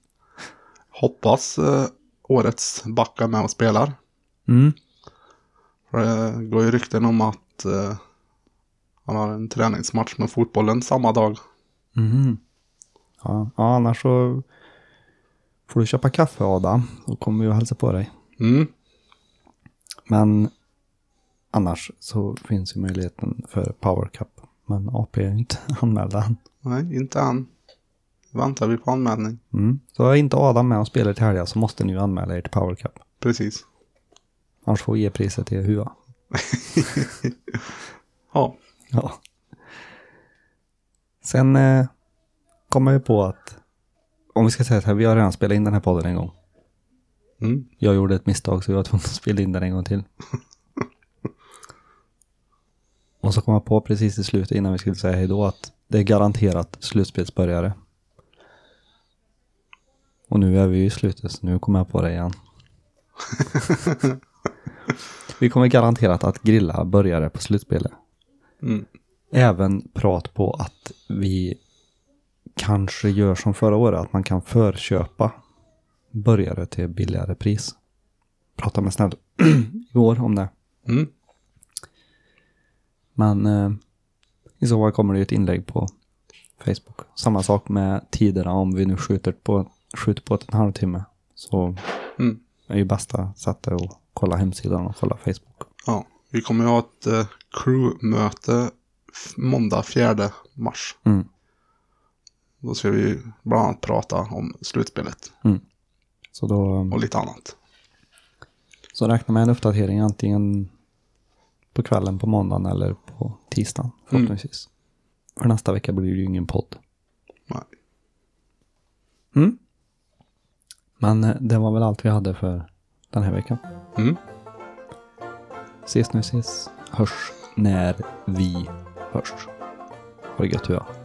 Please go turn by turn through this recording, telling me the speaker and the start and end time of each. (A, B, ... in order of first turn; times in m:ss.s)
0:00.9-0:04.0 A
0:04.5-0:04.8 B
0:05.9-0:08.0 A
0:09.1-0:11.4 A
0:12.0-0:12.4 B
0:13.2-0:14.4 B
0:15.7-0:18.1 B
0:18.4-0:18.7 A
0:20.1-0:20.5 B
0:21.5-0:26.4 B
0:26.6-0:27.5 A
0:28.3-0:29.4 A
0:29.5-0:33.0 B
0:33.2-0:33.6 A
0:34.6-0:36.0 B
0:36.4-0:37.6 A
0:38.9-0:39.2 B
0:41.2-0:41.9 B
0:42.7-0:43.6 B
0:44.4-0:46.4 B
0:47.4-0:47.7 A
0:47.8-0:50.1 B
0:53.2-0:57.8 B
1:00.3-1:02.4 B
1:05.3-1:08.0 B
1:08.6-1:08.9 A
1:09.3-1:11.6 B
1:12.6-1:15.4 B
1:16.1-1:17.8 B
1:18.6-1:20.5 B
1:23.2-1:23.8 B
1:24.6-1:25.9 B
1:26.6-1:31.9 B
1:32.7-1:35.7 B
1:35.8-1:41.0 A
1:42.6-1:45.3 A
1:46.3-1:47.0 B
1:46.9-1:47.6 A
1:48.9-1:50.7 B
1:51.7-1:54.7 B
1:55.4-1:56.8 B
2:01.0-2:03.6 B
2:05.9-2:09.5 B
2:10.4-2:10.9 B